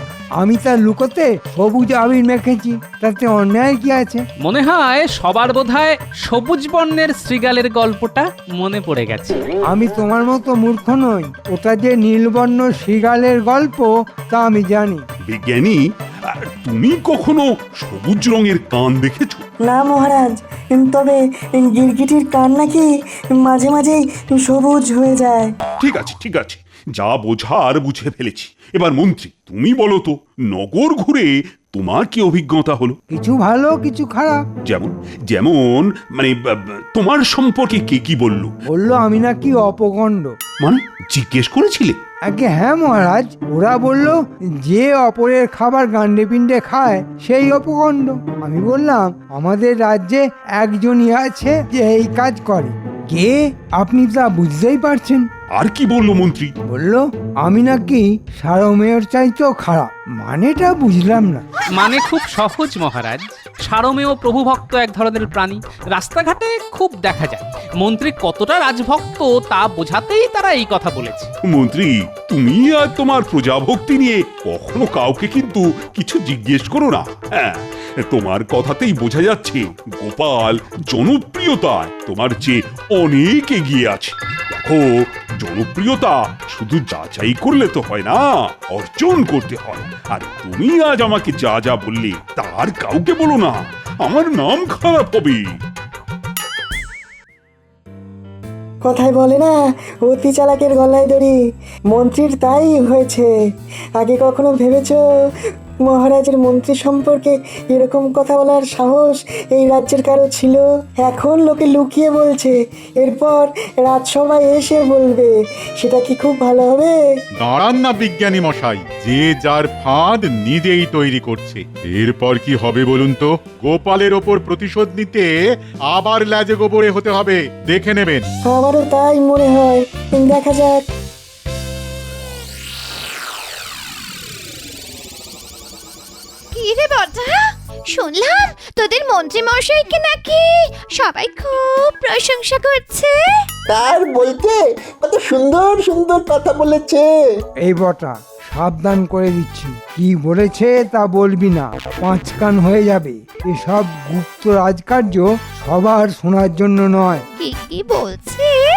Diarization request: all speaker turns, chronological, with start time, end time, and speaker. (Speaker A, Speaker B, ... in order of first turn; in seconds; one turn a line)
Speaker A: 0.4-4.2
Speaker B: 4.4-9.4
Speaker A: 9.7-15.0
Speaker C: 15.3-19.4
Speaker D: 19.6-25.6
Speaker C: 25.8-33.0
Speaker A: 33.1-34.4
Speaker C: 34.7-38.5
Speaker A: 38.7-40.4
Speaker C: 40.6-42.0
Speaker A: 42.3-55.2
Speaker C: 55.5-56.5
Speaker A: 56.7-61.4
Speaker B: 61.8-71.3
Speaker C: 71.5-95.4
Speaker D: 98.8-101.4
Speaker D: 101.9-103.3
Speaker D: 104.0-105.0
Speaker D: 105.8-117.0
Speaker E: 117.4-125.4
Speaker E: 125.9-128.3
Speaker D: 128.4-130.9
Speaker F: 136.5-137.4
Speaker F: 137.9-143.1
Speaker G: 143.7-147.0
Speaker A: 147.6-157.2
Speaker F: 157.4-158.6